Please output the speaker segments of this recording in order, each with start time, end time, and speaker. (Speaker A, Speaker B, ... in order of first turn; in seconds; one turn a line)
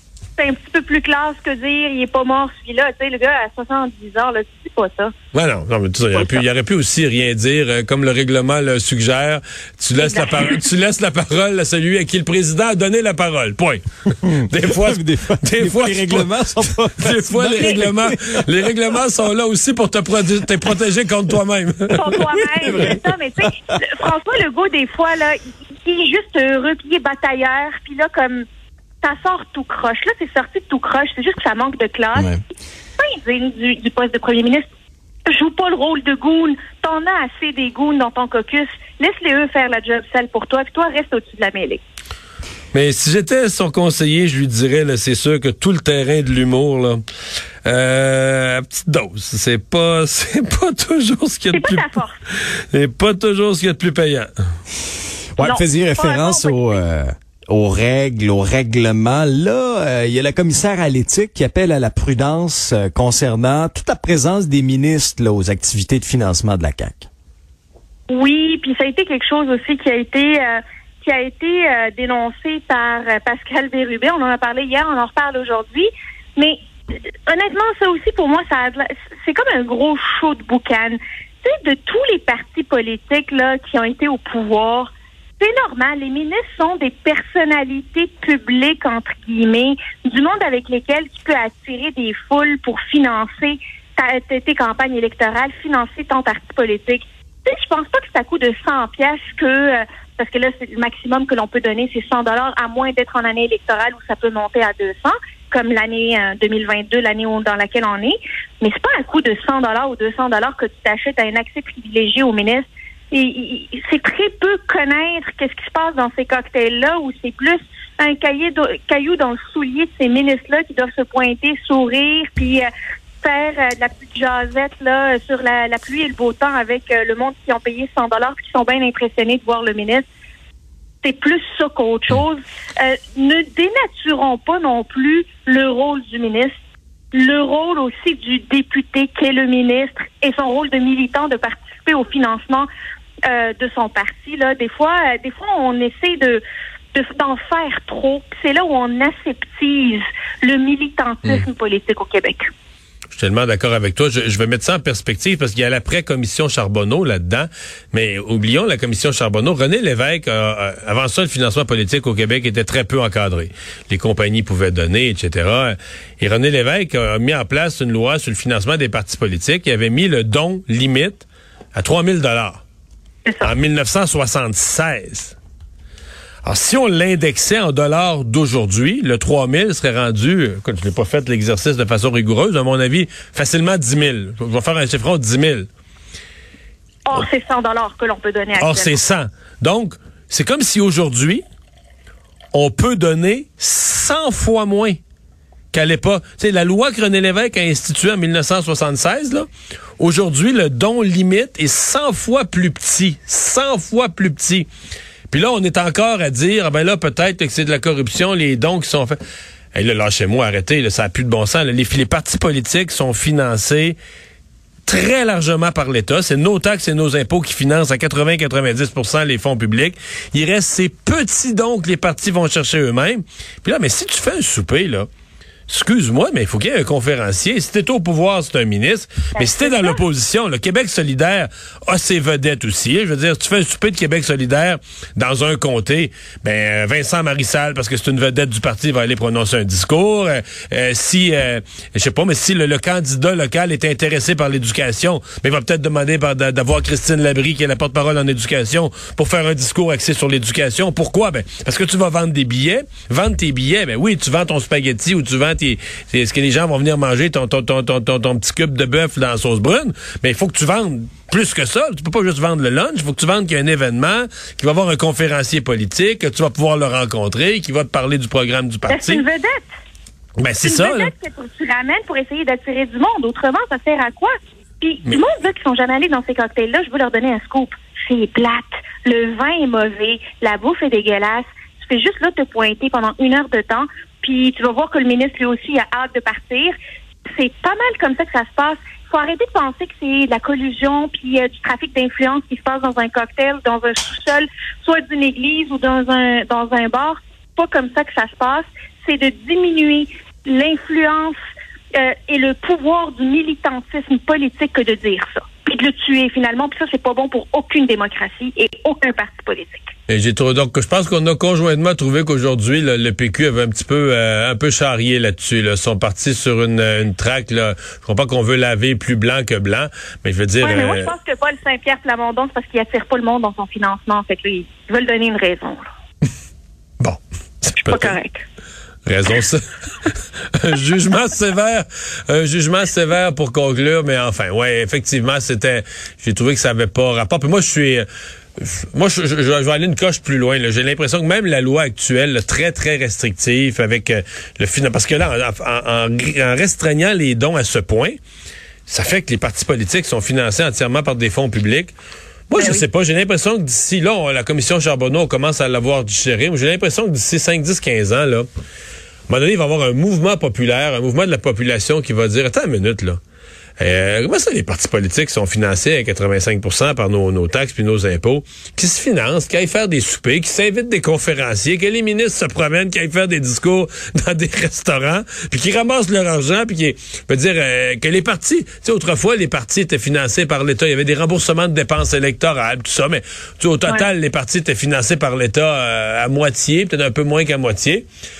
Speaker A: 0.3-5.1
Speaker B: 5.3-16.3
Speaker A: 10.0-10.6
Speaker C: 14.7-18.4
Speaker B: 17.0-22.2
Speaker A: 21.9-28.4
Speaker C: 22.6-23.0
Speaker A: 29.0-32.3
Speaker A: 33.0-34.7
Speaker A: 35.3-41.8
Speaker B: 42.7-47.0
Speaker B: 47.6-52.0
Speaker A: 51.5-52.1
Speaker B: 52.7-54.3
Speaker C: 55.3-67.1
Speaker A: 55.4-56.8
Speaker A: 68.1-76.6
Speaker A: 77.3-122.7
Speaker A: 123.2-130.1
Speaker A: 131.0-136.5
Speaker A: 137.1-142.7
Speaker A: 143.3-146.4
Speaker A: 146.9-152.5
Speaker B: 153.1-172.6
Speaker A: 173.2-173.5
Speaker B: 173.4-175.3
Speaker B: 176.4-185.7
Speaker A: 187.1-189.0
Speaker B: 188.6-191.4
Speaker B: 192.5-195.0
Speaker B: 195.7-199.5
Speaker B: 200.0-204.7
Speaker B: 205.3-209.2
Speaker B: 209.7-214.0
Speaker B: 214.9-225.1
Speaker B: 225.7-269.2
Speaker A: 229.3-230.0
Speaker A: 268.9-269.7
Speaker B: 270.4-271.1
Speaker A: 270.6-286.7
Speaker A: 287.3-301.4
Speaker A: 301.9-309.9
Speaker B: 310.1-321.1
Speaker A: 320.6-325.8
Speaker B: 327.0-328.1
Speaker A: 327.8-328.4
Speaker B: 329.1-338.1
Speaker B: 338.6-348.2
Speaker B: 348.9-351.9
Speaker B: 352.5-358.4
Speaker A: 352.6-352.8
Speaker B: 359.3-363.2
Speaker B: 363.8-388.1